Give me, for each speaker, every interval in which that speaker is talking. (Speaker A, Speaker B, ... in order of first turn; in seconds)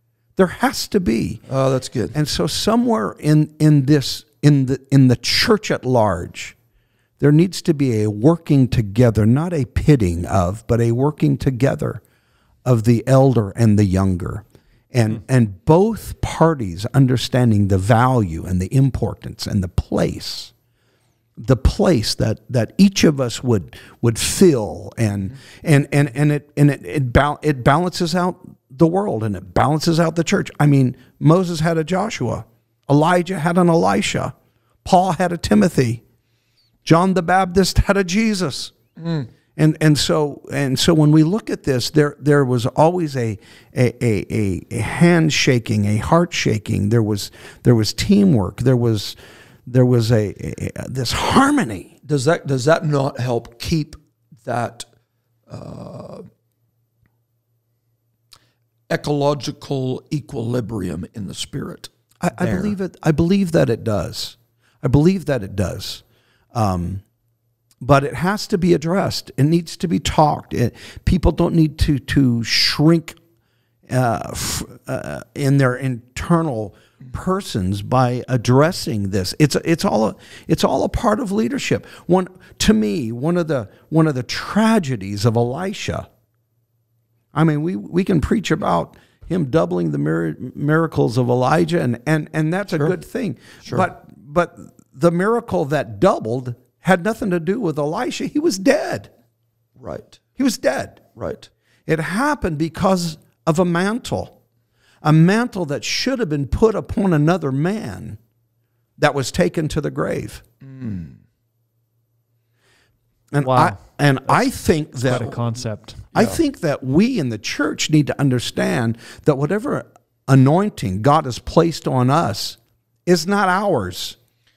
Speaker A: 0.4-1.4, 2.1-6.6, 7.2-12.0, 12.7-20.5, 21.4-36.0, 36.9-38.7, 39.6-51.9, 62.2-67.0, 67.8-73.2, 73.9-86.1, 87.3-99.1, 100.4-101.1, 101.9-104.4, 105.0-108.2, 109.0-110.4, 113.3-115.3, 116.1-124.2
Speaker B: 1.5-2.2, 39.0-39.3, 52.0-54.9, 55.5-56.3, 58.9-62.7, 99.8-100.2, 101.2-101.5, 110.6-111.2, 115.1-115.4, 116.1-116.4
Speaker C: 113.4-116.1